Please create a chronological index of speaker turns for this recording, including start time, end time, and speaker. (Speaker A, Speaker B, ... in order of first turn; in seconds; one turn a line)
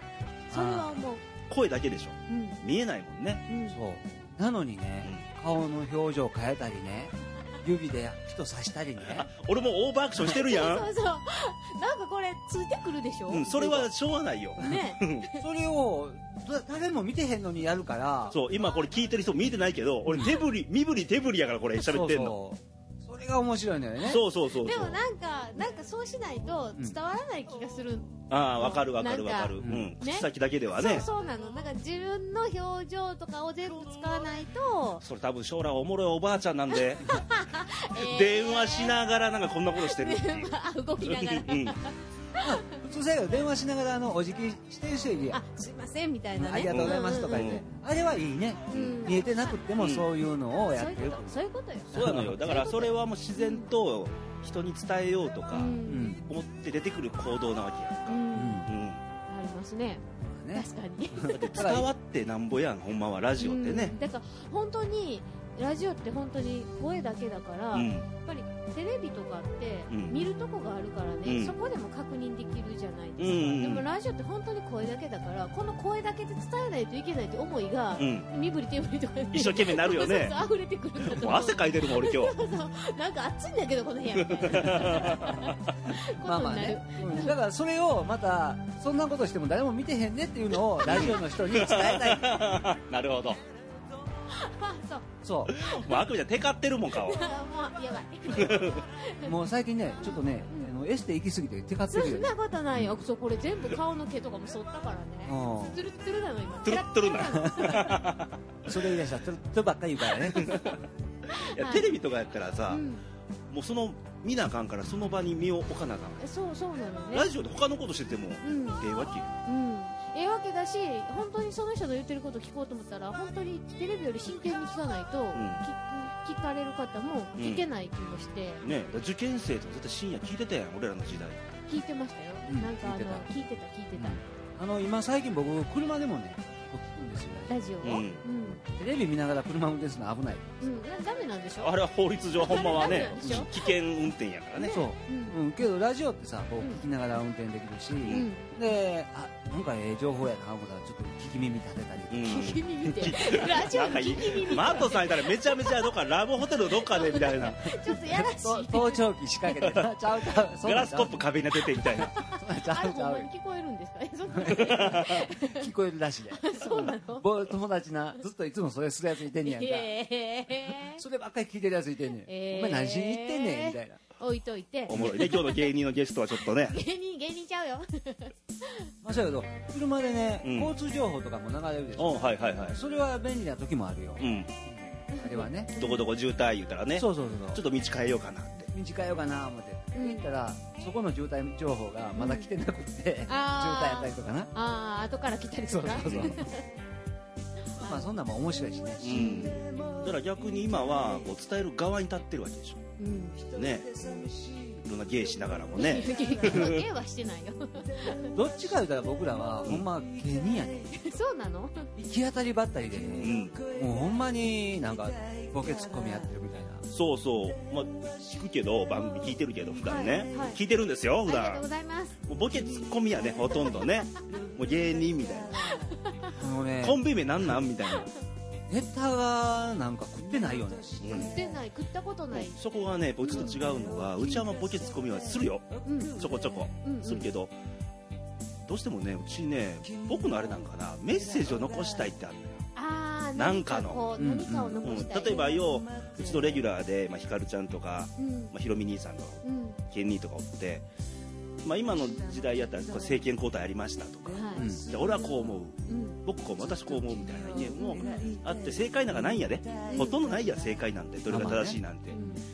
Speaker A: 0.5-1.0
Speaker B: 0.5-1.2
Speaker C: 1.5-3.4
Speaker B: 2.3-2.6
Speaker B: 3.5-3.8
Speaker A: 3.7-9.3
Speaker C: 9.0-10.9
Speaker B: 10.2-13.8
Speaker C: 13.3-15.3
Speaker A: 13.6-13.8
Speaker B: 14.6-15.4
Speaker A: 15.4-18.4
Speaker C: 18.3-22.4
Speaker A: 20.1-20.4
Speaker A: 21.8-24.2
Speaker C: 24.0-25.0
Speaker B: 24.5-35.0
Speaker C: 28.3-31.1
Speaker A: 29.6-29.9
Speaker C: 35.0-37.2
Speaker B: 37.0-39.0
Speaker C: 37.9-41.8
Speaker B: 39.8-42.7
Speaker A: 42.4-45.4
Speaker B: 45.3-47.6
Speaker A: 46.4-51.4
Speaker C: 46.7-47.6
Speaker B: 48.7-49.5
Speaker C: 48.7-49.0
Speaker C: 49.8-50.1
Speaker B: 50.7-53.7
Speaker A: 51.9-52.4
Speaker C: 51.9-59.0
Speaker B: 55.5-56.2
Speaker A: 55.9-56.2
Speaker B: 58.1-58.7
Speaker A: 58.3-58.7
Speaker B: 59.3-61.8
Speaker A: 60.2-61.9
Speaker C: 61.3-64.0
Speaker B: 63.4-87.3
Speaker C: 67.7-68.1
Speaker C: 69.9-70.2
Speaker C: 71.2-71.5
Speaker C: 73.2-73.9
Speaker C: 78.0-78.3
Speaker C: 79.3-80.4
Speaker C: 81.0-82.3
Speaker C: 84.2-85.6
Speaker A: 86.1-92.4
Speaker B: 90.8-91.2
Speaker C: 90.8-93.4
Speaker B: 94.3-96.0
Speaker A: 95.2-95.5
Speaker C: 95.5-97.3
Speaker B: 96.9-99.3
Speaker C: 98.3-98.8
Speaker A: 99.2-102.9
Speaker B: 100.0-100.7
Speaker B: 101.9-108.0
Speaker A: 105.2-105.8
Speaker C: 106.6-108.9
Speaker A: 107.4-107.9
Speaker A: 108.7-110.7
Speaker C: 110.3-110.8
Speaker B: 111.3-111.9
Speaker C: 111.3-112.8
Speaker B: 112.7-113.0
Speaker C: 113.5-116.2
Speaker B: 116.2-117.3
Speaker C: 117.1-119.3
Speaker B: 118.4-128.6
Speaker C: 125.3-125.6
Speaker C: 127.4-127.6
Speaker C: 128.6-131.5
Speaker B: 131.7-134.2
Speaker A: 132.4-133.3
Speaker A: 133.9-137.6
Speaker B: 137.5-138.6
Speaker C: 137.8-138.2
Speaker A: 138.5-140.6
Speaker B: 140.6-141.7
Speaker C: 141.6-144.8
Speaker B: 142.4-143.7
Speaker A: 143.2-143.4
Speaker B: 144.5-145.3
Speaker A: 144.7-152.5
Speaker C: 148.0-148.3
Speaker B: 148.1-148.5
Speaker C: 152.1-157.7
Speaker B: 152.2-155.9
Speaker B: 156.8-159.0
Speaker A: 158.0-161.3
Speaker C: 160.6-162.2
Speaker B: 161.8-165.7
Speaker A: 162.2-163.3
Speaker A: 164.3-169.9
Speaker C: 164.5-165.1
Speaker B: 166.3-167.3
Speaker B: 169.4-171.0
Speaker A: 170.5-174.0
Speaker B: 172.2-175.7
Speaker C: 174.9-176.8
Speaker B: 176.6-178.9
Speaker A: 179.0-185.7
Speaker C: 180.4-180.7
Speaker C: 182.0-182.8
Speaker C: 184.2-184.5
Speaker B: 185.1-186.1
Speaker C: 185.8-188.7
Speaker A: 187.0-187.6
Speaker A: 188.7-194.5
Speaker B: 189.9-190.2
Speaker B: 192.1-192.5
Speaker B: 193.3-196.7
Speaker A: 195.7-196.5
Speaker C: 196.0-196.4
Speaker B: 197.7-198.1
Speaker A: 197.8-199.4
Speaker C: 199.0-202.8
Speaker B: 199.1-199.9
Speaker B: 203.0-203.4
Speaker C: 203.4-206.8
Speaker B: 205.7-208.3
Speaker A: 208.3-210.9
Speaker B: 210.9-211.9
Speaker A: 211.9-216.8
Speaker C: 213.2-213.7
Speaker C: 216.9-221.6
Speaker B: 219.8-220.6
Speaker B: 221.2-222.2
Speaker C: 222.2-225.6
Speaker B: 225.7-226.3
Speaker A: 226.3-227.6
Speaker C: 226.8-228.1
Speaker A: 228.7-231.0
Speaker C: 231.0-231.3
Speaker B: 231.0-232.6
Speaker C: 232.3-237.5
Speaker B: 233.2-233.7
Speaker B: 235.8-236.2
Speaker B: 236.8-237.3
Speaker C: 238.7-242.7
Speaker B: 242.7-245.6
Speaker C: 243.3-244.1
Speaker A: 244.2-244.8
Speaker C: 244.8-250.8
Speaker B: 248.2-248.5
Speaker B: 249.4-249.8
Speaker C: 251.6-262.2
Speaker B: 254.3-254.7
Speaker A: 254.6-254.8
Speaker B: 255.9-256.2
Speaker B: 257.7-258.3
Speaker B: 259.8-260.2
Speaker A: 261.3-261.8
Speaker B: 262.1-262.4